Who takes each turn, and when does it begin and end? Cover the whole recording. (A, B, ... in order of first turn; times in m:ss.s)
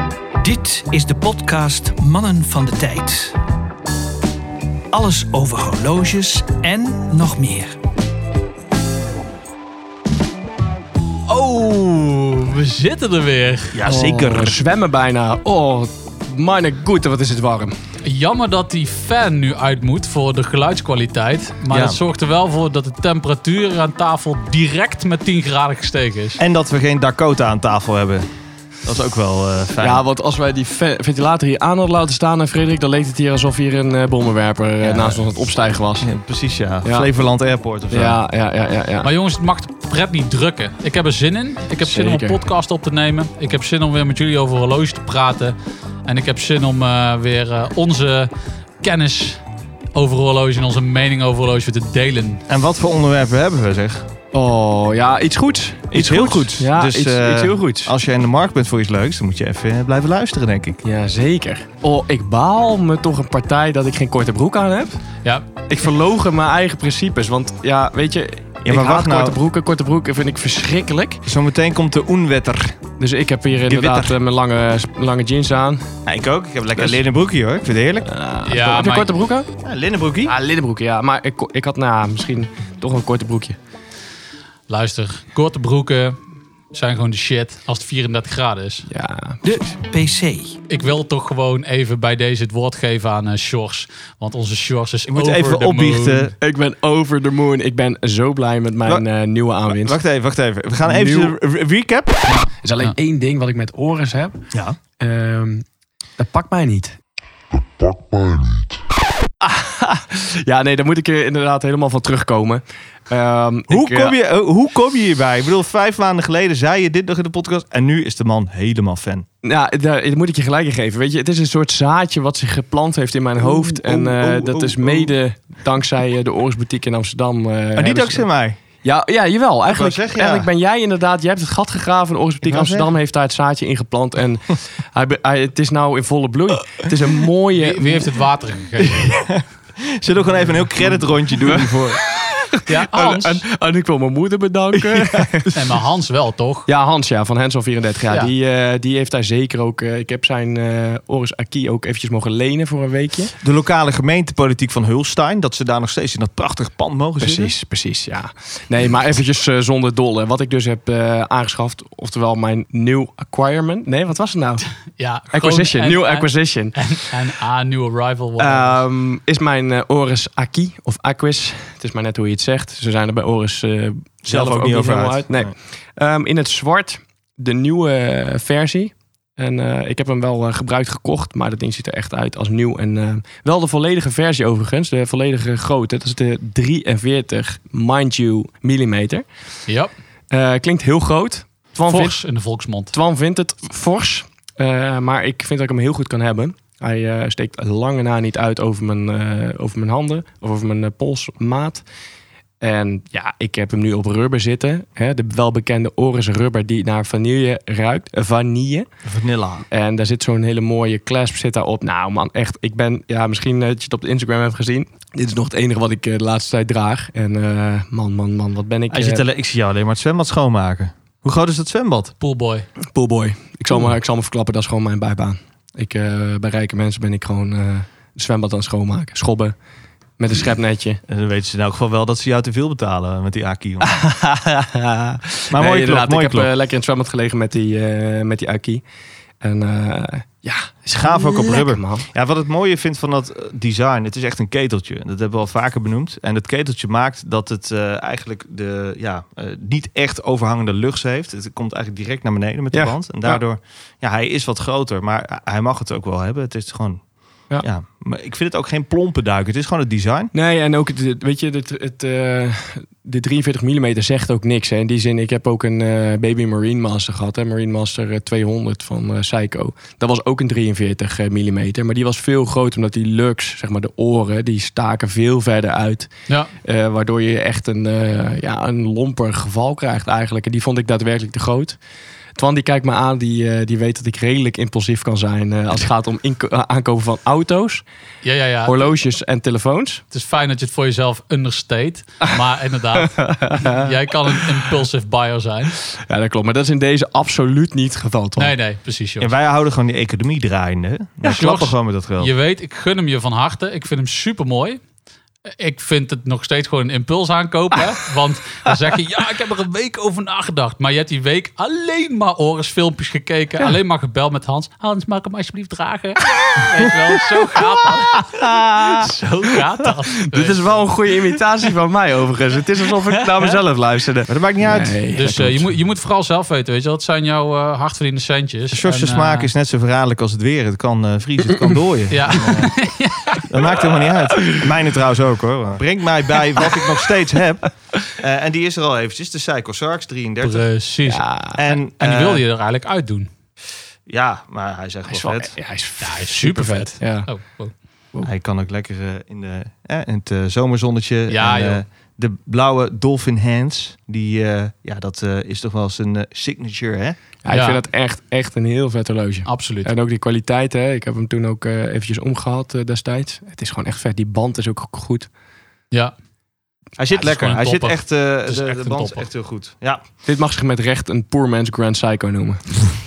0:00.4-0:03.4 A
0:04.9-0:07.8 A
0:11.3-0:13.8 B
0:13.7-0:14.6 C
0:13.8-0:17.8 D
0:18.0-0:26.4 B
0:21.7-0:22.0 C
0:26.4-0:28.2 C
0:28.8-0:30.0 C
0:29.8-0:36.1 D
0:34.8-0:35.2 C
0:36.0-0:38.2 C
0:37.9-0:39.1 D
0:39.0-0:49.4 B
0:41.8-0:42.4 D
0:49.9-0:52.4 B
0:52.5-0:54.1 C
0:54.3-0:57.9 D
0:55.9-1:00.8 C
1:00.8-1:05.0 D
1:05.7-1:11.2 D
1:08.6-1:09.4 C
1:11.2-1:12.8 C
1:13.0-1:15.9 D
1:13.7-1:14.2 C
1:16.0-1:18.1 C
1:18.0-1:19.5 D
1:18.4-1:19.1 B
1:19.6-1:20.3 C
1:20.3-1:23.6 D
1:24.7-1:26.2 B
1:26.7-1:28.9 B
1:28.9-1:29.4 D
1:29.4-1:30.6 A
1:30.7-1:36.3 B
1:35.1-1:36.3 C
1:36.4-1:40.0 D
1:39.7-1:42.4 C
1:40.8-1:41.3 D
1:42.5-1:45.6 D
1:44.5-1:44.8 C
1:46.2-1:47.0 D
1:49.4-1:54.1 D
1:53.7-1:59.2 C
1:59.4-2:08.2 D
2:03.4-2:05.1 C
2:07.8-2:08.6 C
2:08.8-2:18.1 D
2:09.7-2:10.5 C
2:12.5-2:12.9 C
2:17.6-2:19.1 B
2:18.8-2:22.0 C
2:20.8-2:25.6 D
2:22.6-2:23.4 B
2:24.9-2:25.2 C
2:25.5-2:26.7 B
2:26.7-2:33.3 D
2:33.4-2:37.5 C
2:37.2-2:44.7 D
2:45.0-2:48.8 B
2:45.3-2:46.8 D
2:48.4-3:09.2 D
2:54.2-2:55.5 C
3:10.3-3:12.2 D
3:11.8-3:12.9 B
3:12.9-3:21.8 D
3:22.6-3:28.9 D
3:29.0-3:29.6 C
3:29.7-3:39.2 D
3:38.9-3:42.1 C
3:42.2-3:42.7 B
3:42.9-3:49.5 D
3:50.2-3:51.0 D
3:51.1-3:53.9 C
3:53.8-3:58.8 D
3:55.5-3:56.5 C
3:59.4-4:02.1 D
4:00.9-4:17.0 C
4:12.7-4:13.4 D
4:17.6-4:20.3 C
4:20.3-4:36.1 D
4:36.6-4:41.8 D
4:42.4-4:47.8 D
4:48.2-4:48.9 B
4:48.6-4:50.0 D
4:50.1-4:55.8 B
4:53.0-4:53.9 D
4:55.9-4:58.5 D
4:58.4-4:59.3 B
4:59.2-5:02.3 C
5:01.2-5:04.8 B
5:05.6-5:20.8 B
5:18.2-5:19.1 D
5:20.3-5:25.7 D
5:24.3-5:25.0 C
5:25.1-5:29.5 B
5:28.7-5:32.7 C
5:32.1-5:33.5 B
5:33.4-5:40.7 C
5:40.4-5:43.3 B
5:41.0-5:41.6 D
5:41.5-5:42.4 C
5:44.1-5:45.5 C
5:45.1-5:47.3 D
5:46.0-5:47.7 B
5:48.2-5:57.2 C
5:51.3-5:51.8 B
5:57.4-6:05.3 D
5:57.5-5:57.8 B
5:59.4-5:59.9 B
6:07.0-6:10.0 C
6:07.1-6:09.2 B
6:10.2-6:12.9 D